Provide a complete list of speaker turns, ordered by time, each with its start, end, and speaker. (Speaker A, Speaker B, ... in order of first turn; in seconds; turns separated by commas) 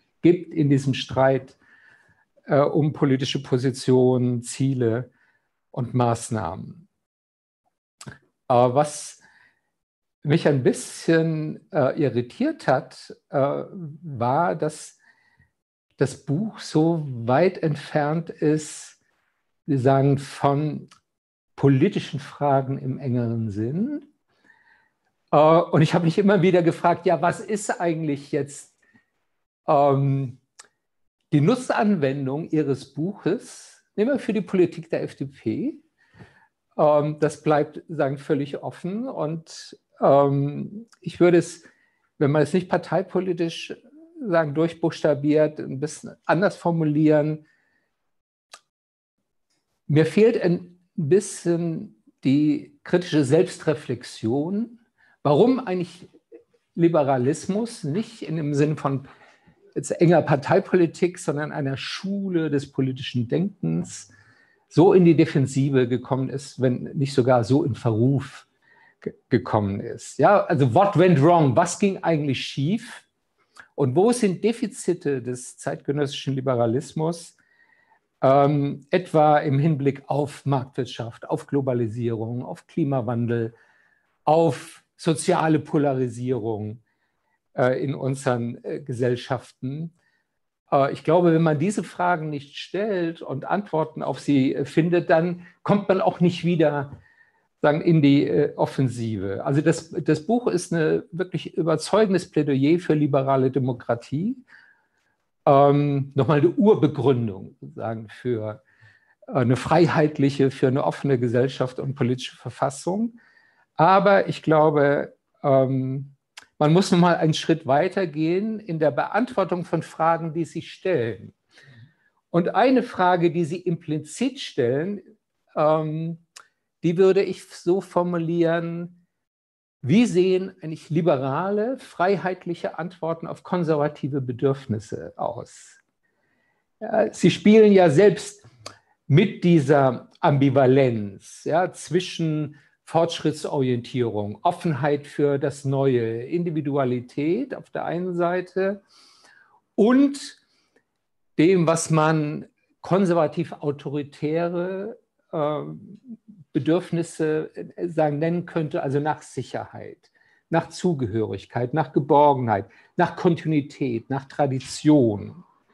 Speaker A: 0.2-1.6, Speaker A: 2.5-5.1, Speaker A: 5.7-6.8, Speaker A: 8.5-9.2, Speaker A: 10.2-15.0, Speaker A: 16.0-19.0, Speaker A: 19.7-20.9, Speaker A: 21.6-24.1, Speaker A: 25.3-28.7, Speaker A: 29.7-30.4, Speaker A: 31.3-35.8, Speaker A: 36.8-41.7, Speaker A: 42.2-47.4, Speaker A: 49.9-56.1, Speaker A: 56.7-59.1, Speaker A: 59.7-64.1, Speaker A: 64.7-68.4, Speaker A: 69.0-73.0, Speaker A: 73.8-77.3, Speaker A: 78.2-83.5, Speaker A: 84.2-86.8, Speaker A: 87.5-89.9, Speaker A: 90.7-97.0, Speaker A: 97.6-104.4, Speaker A: 105.5-108.6, Speaker A: 109.3-113.1, Speaker A: 113.8-121.3, Speaker A: 122.3-125.0, Speaker A: 125.5-126.2, Speaker A: 126.8-129.0, Speaker A: 129.8-135.8, Speaker A: 136.8-138.4, Speaker A: 139.1-148.8, Speaker A: 149.8-150.4, Speaker A: 151.4-165.4